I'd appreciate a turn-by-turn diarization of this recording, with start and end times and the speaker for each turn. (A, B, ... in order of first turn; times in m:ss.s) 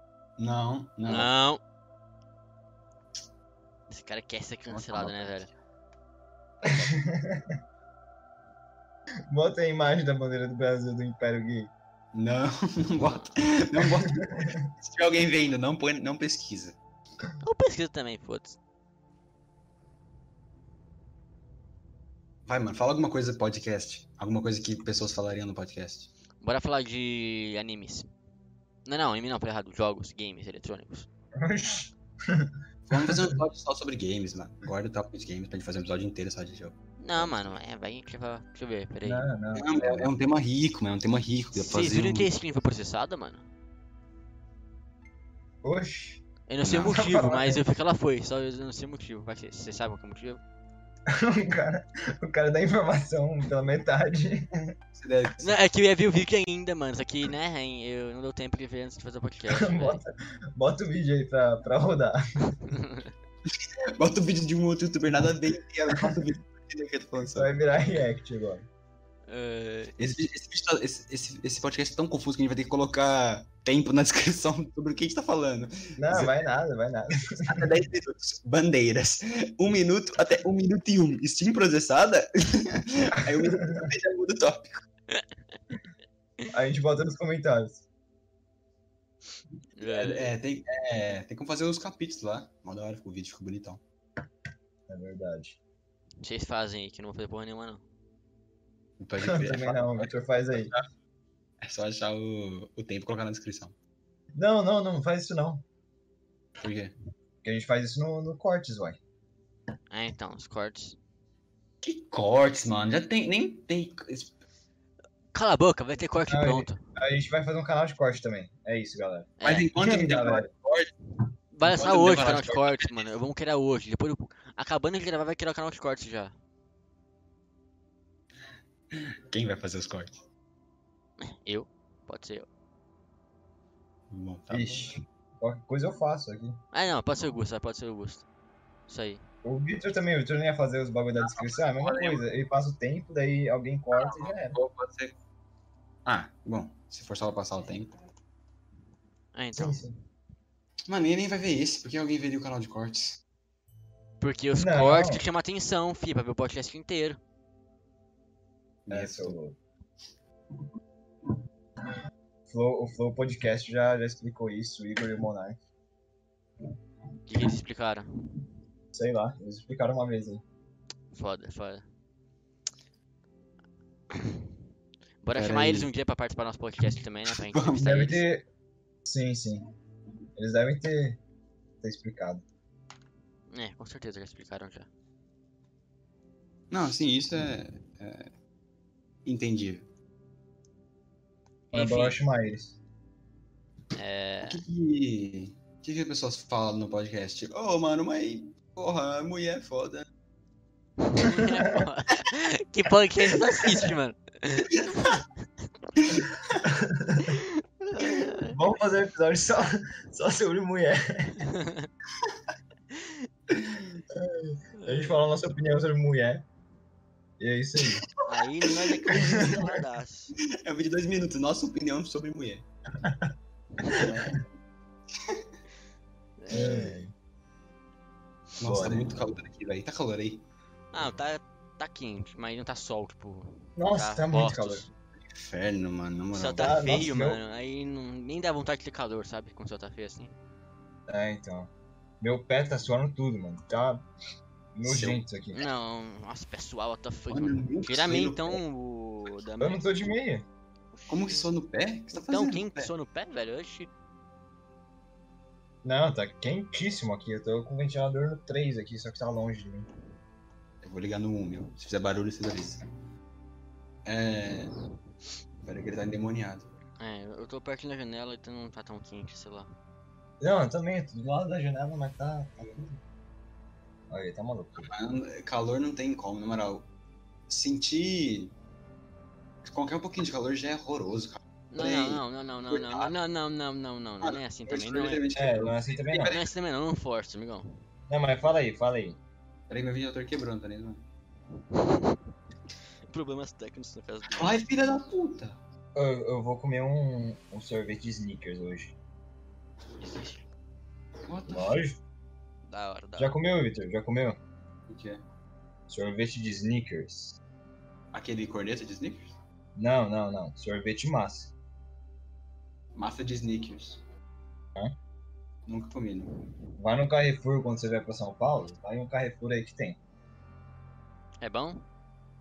0:00.4-0:01.3 A
0:01.1-0:01.6 B
0:03.9-0:05.5 B
0:04.7-0:05.5 A
0:06.6-0:07.5 C
0:09.3-0:11.7 C
0:12.1-0:16.8 A
0:13.0-0:13.4 B
0:13.8-0:14.6 C
0:17.4-0:18.6 B
0:22.5-0:26.1 A
0:26.4-0:28.1 B
0:28.9-0:31.1 B
0:31.4-0:33.4 C
0:32.9-0:37.4 A
0:37.0-0:39.3 B
0:39.0-0:40.1 C
0:39.5-0:42.3 A
0:41.6-0:43.5 B
0:45.6-0:46.2 C
0:46.5-0:50.4 B
0:46.6-0:47.0 A
0:46.8-0:47.6 C
0:51.1-0:54.6 C
0:55.0-0:55.6 A
0:55.4-1:00.0 B
0:59.5-1:02.2 C
1:02.7-1:03.1 B
1:03.5-1:07.5 A
1:07.2-1:08.7 C
1:09.3-1:10.0 B
1:10.0-1:16.4 A
1:16.0-1:17.7 C
1:17.3-1:24.8 A
1:23.4-1:23.9 C
1:26.5-1:27.8 C
1:29.8-1:30.3 B
1:29.8-1:33.8 A
1:34.9-1:35.6 C
1:36.2-1:37.8 B
1:39.0-1:40.8 A
1:39.2-1:40.7 C
1:41.6-1:43.8 A
1:44.4-1:45.6 C
1:46.6-1:46.9 A
1:47.4-1:49.0 C
1:49.9-1:51.0 B
1:51.8-1:54.3 A
1:55.3-1:56.8 B
1:56.3-2:00.5 C
1:59.4-1:59.7 B
1:59.4-2:00.9 A
2:01.5-2:06.4 B
2:01.7-2:03.1 A
2:08.9-2:10.1 A
2:11.2-2:12.5 B
2:14.1-2:15.0 A
2:14.5-2:16.6 C
2:16.7-2:18.2 B
2:18.9-2:19.2 B
2:19.4-2:24.6 C
2:21.2-2:22.2 A
2:23.9-2:25.2 A
2:26.1-2:28.0 A
2:29.3-2:29.8 B
2:29.6-2:30.0 C
2:30.9-2:33.2 A
2:34.2-2:37.2 B
2:34.6-2:35.2 C
2:38.9-2:39.4 A
2:38.9-2:39.6 C
2:42.5-2:45.6 C
2:47.3-2:48.1 B
2:48.9-2:50.4 C
2:51.1-2:51.8 B
2:54.1-2:54.4 B
2:55.2-2:58.2 B
2:55.4-2:55.9 A
2:57.3-2:58.0 A
2:57.8-2:58.5 C
2:59.0-2:59.6 C
3:00.4-3:01.2 C
3:01.8-3:02.4 C
3:03.5-3:04.9 B
3:06.7-3:08.3 A
3:09.2-3:09.9 A
3:11.7-3:12.2 B
3:11.7-3:12.8 C
3:14.0-3:14.6 B
3:14.5-3:20.1 A
3:21.0-3:25.2 B
3:26.6-3:27.4 C
3:27.2-3:28.5 B
3:28.0-3:31.5 C
3:31.4-3:31.9 B
3:32.9-3:33.2 B
3:34.1-3:36.4 C
3:34.8-3:35.2 B
3:37.4-3:38.0 C
3:37.8-3:39.4 A
3:38.2-3:40.4 B
3:39.1-3:39.8 C
3:40.5-3:42.6 A
3:43.8-3:44.4 A
3:45.2-3:45.4 A
3:46.4-3:47.0 B
3:46.5-3:47.1 C
3:48.6-3:50.4 A
3:48.6-3:49.0 C
3:50.9-3:54.8 B
3:53.8-3:54.9 C
3:55.3-3:57.0 A
3:56.3-4:00.4 B
3:56.6-3:57.4 C
4:01.1-4:01.7 C
4:02.2-4:04.0 C
4:04.8-4:05.6 C
4:04.8-4:05.2 A
4:05.6-4:09.8 B
4:07.3-4:08.6 A
4:09.6-4:10.5 C
4:10.9-4:11.5 B
4:11.1-4:12.9 A
4:12.1-4:13.9 B
4:15.8-4:19.9 C
4:20.8-4:22.8 A
4:24.0-4:24.7 A
4:25.6-4:26.7 A
4:27.0-4:29.7 B
4:30.4-4:33.0 C
4:34.1-4:34.9 C
4:34.8-4:36.9 A
4:37.5-4:38.5 A
4:39.6-4:43.1 A
4:41.7-4:45.2 B
4:44.2-4:46.4 A
4:45.4-4:46.4 C
4:46.1-4:47.8 B
4:48.1-4:49.2 C
4:49.7-4:51.0 A
4:51.7-4:52.2 B
4:53.1-4:54.6 B
4:54.3-4:55.6 A
4:56.0-4:59.0 C
5:00.0-5:00.4 B
5:01.3-5:01.8 A
5:01.5-5:02.0 C
5:02.7-5:03.4 B
5:03.2-5:04.4 C
5:04.9-5:05.2 A
5:05.9-5:07.4 C
5:08.1-5:09.3 A
5:09.8-5:11.5 C
5:13.0-5:14.0 A
5:15.7-5:16.3 A
5:16.8-5:20.0 C
5:21.4-5:21.8 B